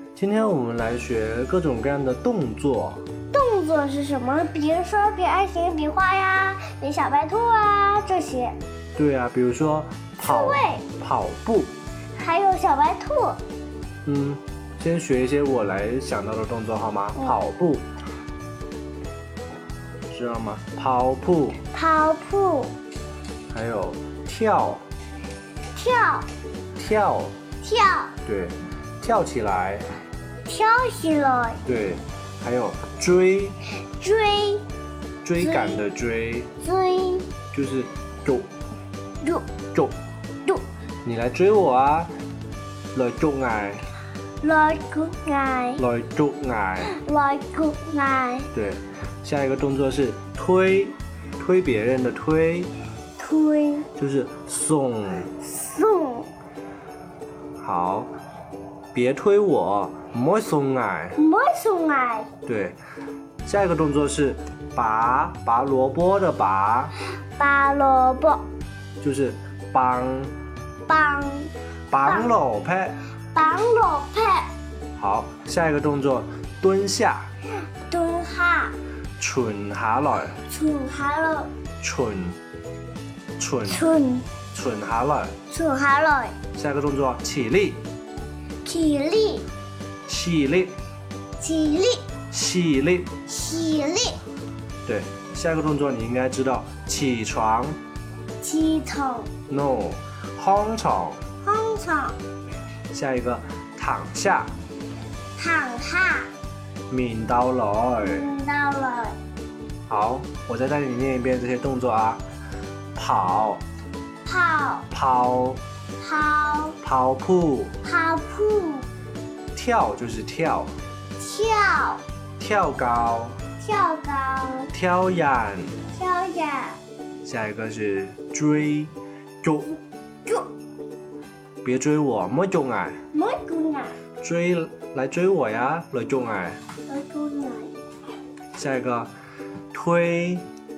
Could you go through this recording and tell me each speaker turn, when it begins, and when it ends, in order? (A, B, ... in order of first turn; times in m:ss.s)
0:00.2-0:03.0 A
0:03.3-0:08.6 B
0:09.0-0:11.7 A
0:10.2-0:10.8 B
0:12.2-0:13.4 B
0:14.0-0:17.8 A
0:20.1-0:21.6 A
0:21.7-0:22.7 B
0:23.5-0:24.8 A
0:25.7-0:26.3 B
0:26.8-0:27.3 A
0:27.6-0:28.1 B
0:28.2-0:29.9 A
0:30.4-0:31.6 B
0:31.6-0:33.6 A
0:33.9-0:34.6 B
0:35.2-0:36.5 A
0:35.4-0:35.8 B
0:36.6-0:37.3 B
0:37.5-0:38.5 A
0:39.2-0:39.5 B
0:41.0-0:42.1 A
0:42.9-0:43.8 A
0:44.4-0:45.8 B
0:45.8-0:46.9 A
0:46.8-0:48.5 B
0:48.5-0:52.7 A
0:53.2-0:53.9 B
0:54.0-0:55.3 A
0:55.4-0:56.3 B
0:57.6-0:58.1 A
0:58.9-1:01.2 A
1:01.2-1:02.3 B
1:02.4-1:02.8 A
1:03.4-1:06.9 A
1:07.4-1:08.4 B
1:09.0-1:10.3 A
1:10.9-1:11.5 B
1:11.9-1:13.0 A
1:12.0-1:12.3 B
1:13.3-1:14.5 B
1:15.0-1:17.3 A
1:17.9-1:18.7 B
1:19.2-1:20.4 A
1:20.4-1:21.5 B
1:21.8-1:22.4 A
1:23.4-1:23.9 A
1:23.7-1:24.3 B
1:24.5-1:25.3 A
1:25.5-1:26.4 B
1:26.6-1:27.8 A
1:28.6-1:29.5 B
1:30.1-1:30.8 A
1:31.4-1:32.0 B
1:32.3-1:33.1 A
1:33.2-1:34.2 B
1:34.8-1:37.8 A
1:38.4-1:39.3 B
1:39.5-1:41.2 A
1:41.4-1:42.2 B
1:42.9-1:44.5 A
1:45.4-1:46.3 B
1:46.9-1:48.2 A
1:48.0-1:49.2 B
1:49.9-1:52.2 A
1:52.9-1:53.6 A
1:54.2-1:54.9 B
1:54.9-1:55.6 A
1:56.0-1:56.8 B
1:56.8-1:57.7 A
1:57.8-1:58.9 B
1:59.5-2:00.7 A
2:01.2-2:02.0 B
2:02.4-2:03.4 A
2:03.6-2:04.7 B
2:04.7-2:05.8 A
2:05.9-2:06.8 B
2:07.2-2:09.7 A
2:11.6-2:13.0 A
2:13.1-2:14.0 B
2:14.2-2:16.6 A
2:16.9-2:17.8 B
2:18.6-2:19.1 A
2:19.7-2:20.4 A